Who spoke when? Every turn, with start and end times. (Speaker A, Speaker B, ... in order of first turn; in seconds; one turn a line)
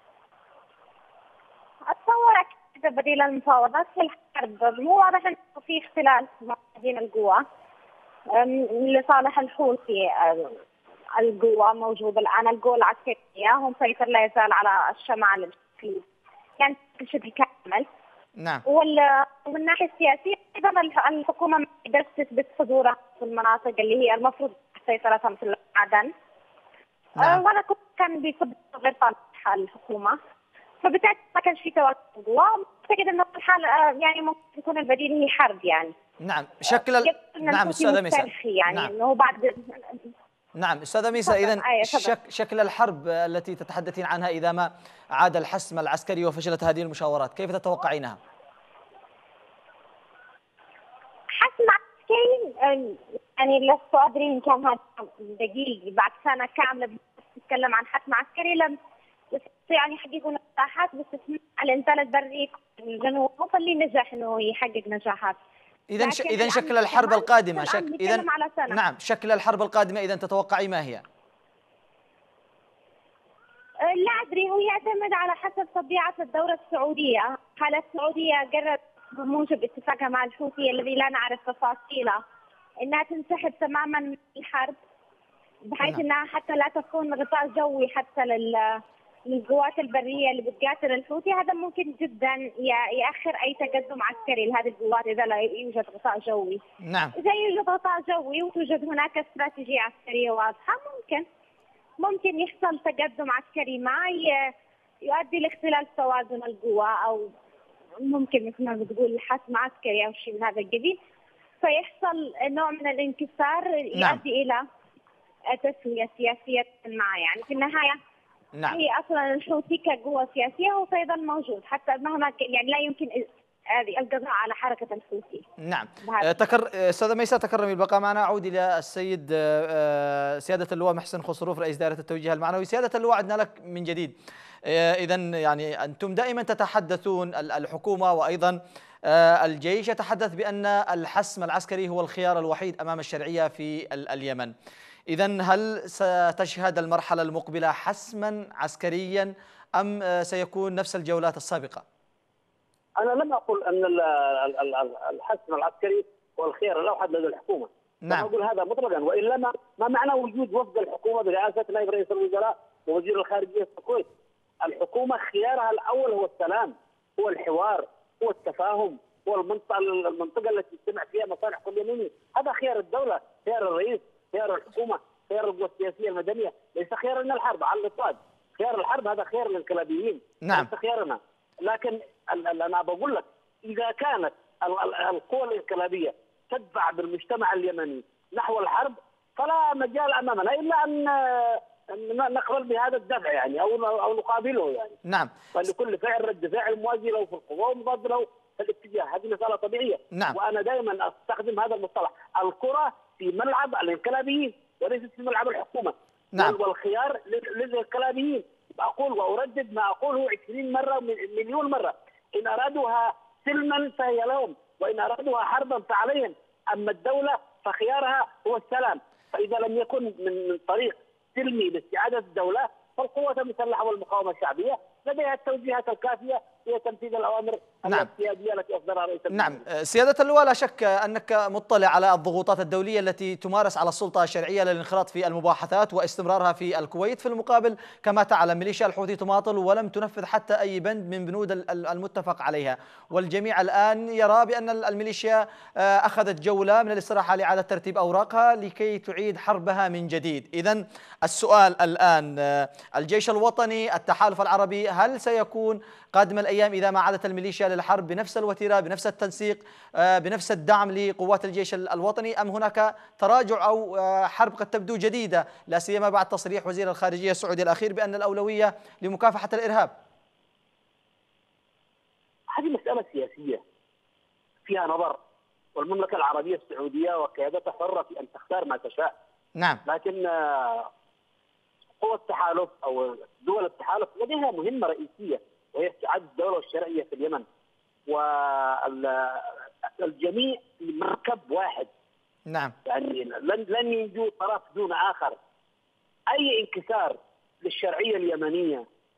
Speaker A: 1.9-7.4
Speaker A: 8.3-10.6
Speaker A: 11.2-16.0
Speaker A: 16.6-17.9
Speaker B: 18.4-18.6
Speaker A: 18.7-26.1
Speaker A: 27.2-30.2
Speaker A: 30.8-35.9
Speaker B: 36.2-38.9
Speaker A: 36.7-40.0
Speaker B: 40.6-48.2
Speaker A: 41.2-42.1
Speaker A: 51.3-58.8
Speaker A: 59.3-65.4
Speaker B: 65.9-71.0
Speaker A: 66.0-68.8
Speaker A: 73.8-82.2
Speaker A: 82.8-84.8
Speaker A: 85.7-96.6
Speaker B: 96.8-97.1
Speaker A: 97.2-101.3
Speaker A: 102.0-107.3
Speaker A: 108.0-111.0
Speaker A: 111.6-114.6
Speaker B: 114.0-114.2
Speaker A: 115.5-118.0
Speaker A: 118.7-125.4
Speaker B: 125.6-134.1
Speaker A: 126.0-126.4
Speaker B: 134.7-144.5
Speaker B: 145.1-151.8
Speaker C: 153.0-164.1
Speaker C: 164.6-195.0
Speaker B: 180.4-180.7
Speaker B: 195.1-195.3
Speaker C: 195.6-229.6
Speaker B: 229.3-269.9
Speaker C: 272.5-273.6
Speaker C: 274.7-275.2
Speaker C: 275.8-279.1
Speaker C: 279.9-280.9
Speaker C: 282.0-287.4
Speaker C: 288.1-291.9
Speaker B: 292.5-292.7
Speaker C: 292.9-295.4
Speaker C: 296.3-298.9